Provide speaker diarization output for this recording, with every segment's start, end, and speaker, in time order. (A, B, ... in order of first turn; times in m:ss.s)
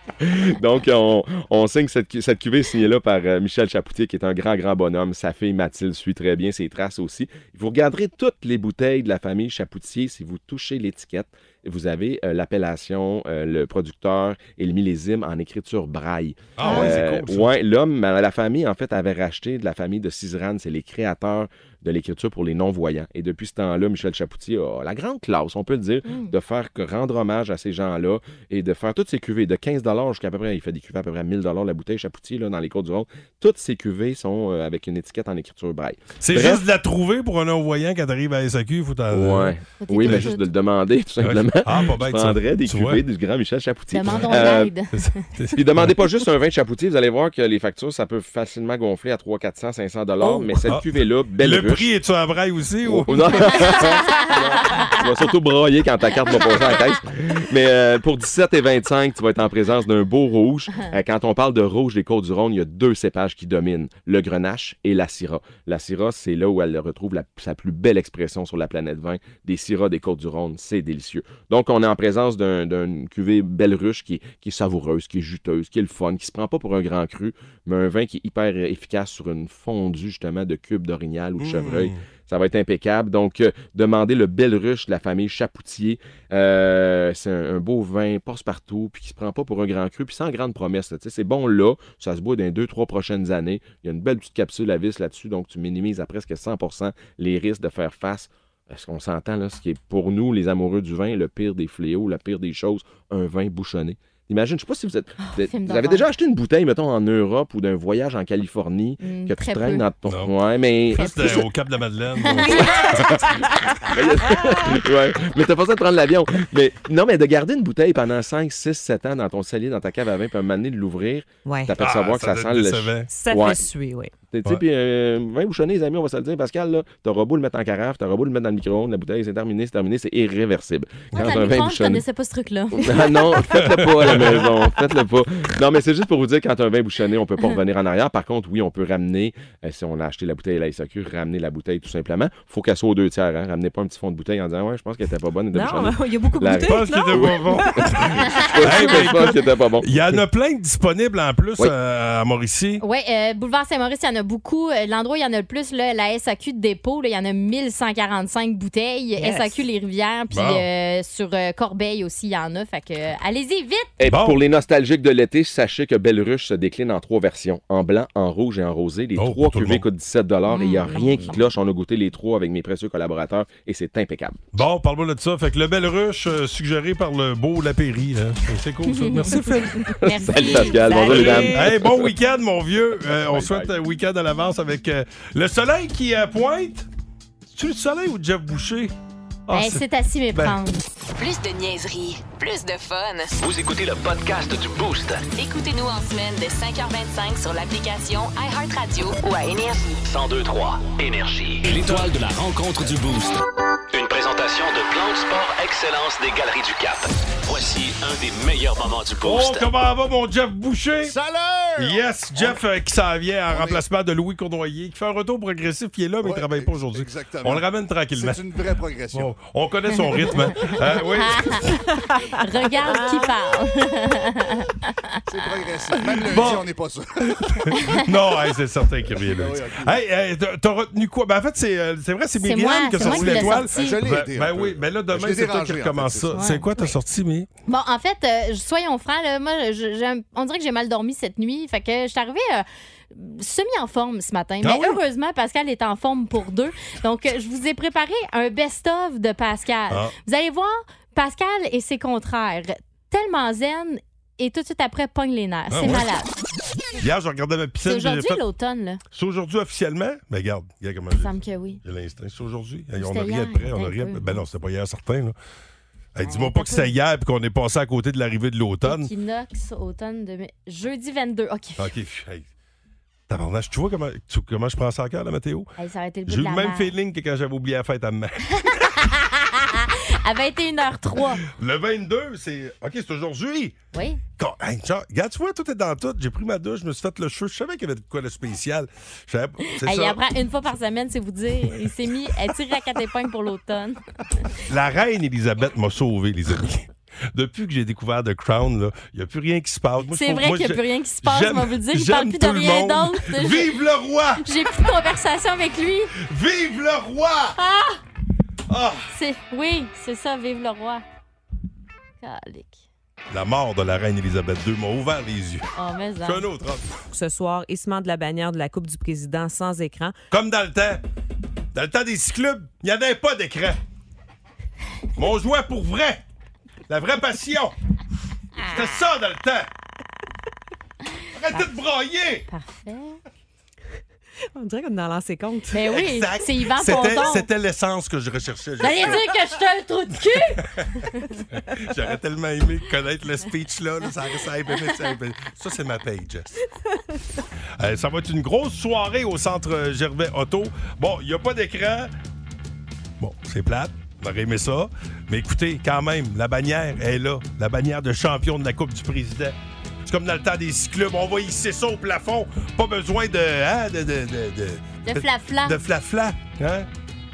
0:00.2-0:36.6 A
0:16.5-0:17.5 B
0:16.6-0:16.9 C
0:26.0-0:26.3 C
0:36.2-0:40.3 B
0:39.1-0:44.7 A
0:39.8-0:40.5 C
0:41.2-0:43.0 B
0:43.9-0:44.9 C
0:44.0-0:46.0 B
0:45.5-0:51.9 A
0:50.2-0:53.9 B
0:52.8-1:51.5 A
0:53.8-0:54.9 C
1:21.4-1:22.0 B
1:45.2-1:46.0 C
1:49.0-1:49.9 C
1:50.1-1:50.3 B
1:50.9-1:53.2 B
1:51.0-1:51.5 C
1:52.2-1:52.7 C
1:52.6-1:53.4 D
1:53.8-2:03.6 A
2:01.4-2:01.8 D
2:01.8-2:03.1 B
2:03.1-2:04.1 D
2:04.3-2:12.0 A
2:11.1-2:13.2 C
2:12.7-2:30.2 A
2:13.5-2:14.5 B
2:25.5-2:29.3 D
2:26.5-2:27.8 B
2:28.6-2:32.8 B
2:32.8-2:43.9 C
2:39.2-2:39.6 D
2:40.3-2:40.6 B
2:44.0-2:54.4 A
2:44.0-2:44.4 B
2:49.2-2:49.8 B
2:50.5-2:51.4 C
2:54.5-2:59.9 B
2:58.9-3:01.6 C
2:59.8-3:02.1 A
3:00.4-3:06.9 B
3:01.2-3:01.7 D
3:03.3-3:03.7 A
3:07.5-3:08.9 B
3:09.5-3:10.6 B
3:09.5-3:10.8 C
3:11.2-3:13.3 E
3:13.4-3:15.2 F
3:15.3-3:20.0 E
3:20.0-3:29.7 F
3:29.2-3:31.1 B
3:31.0-3:32.6 G
3:31.8-3:38.4 B
3:33.5-3:33.8 G
3:36.2-3:39.4 G
3:39.1-3:41.7 B
3:40.6-3:44.9 C
3:42.8-3:43.3 D
3:45.3-3:47.7 G
3:46.1-3:46.7 B
3:47.3-3:57.5 B
3:47.7-3:48.0 C
3:49.2-3:50.0 G
3:52.4-3:54.0 C
3:53.0-3:56.4 G
3:56.3-3:57.0 C
3:57.7-4:16.3 C
4:04.6-4:05.0 B
4:15.7-4:16.0 B
4:17.0-4:18.4 B
4:17.8-4:19.0 C
4:19.1-4:25.3 B
4:21.2-4:21.8 C
4:23.0-4:24.4 C
4:26.1-4:29.1 B
4:26.2-4:26.9 C
4:28.8-4:31.9 C
4:31.8-4:32.5 B
4:33.3-4:35.7 B
4:35.8-4:36.9 C
4:36.3-4:38.7 B
4:38.5-4:41.4 C
4:41.6-4:43.7 B
4:43.9-4:44.2 C
4:44.4-4:50.2 B
4:49.7-4:54.0 C
4:54.7-5:04.4 B
5:00.1-5:03.7 C
5:04.4-5:06.1 C
5:06.2-5:07.6 B
5:07.6-5:08.0 C
5:08.7-5:09.1 B
5:09.1-5:11.0 C
5:12.2-5:12.8 C
5:13.3-5:15.7 B
5:15.8-5:16.4 C
5:16.2-5:16.9 B
5:17.1-5:20.1 D
5:20.3-5:21.0 B
5:21.7-5:23.8 B
5:25.2-5:26.2 B
5:26.9-5:27.7 B
5:28.7-5:29.7 B
5:31.3-5:32.4 B
5:32.5-5:33.2 C
5:34.5-5:35.7 D
5:35.7-5:37.5 C
5:35.8-5:39.2 B
5:36.9-5:37.2 D
5:38.8-5:41.4 C
5:41.5-5:46.6 B
5:47.8-5:52.1 B
5:53.2-6:06.9 B
6:05.0-6:05.8 C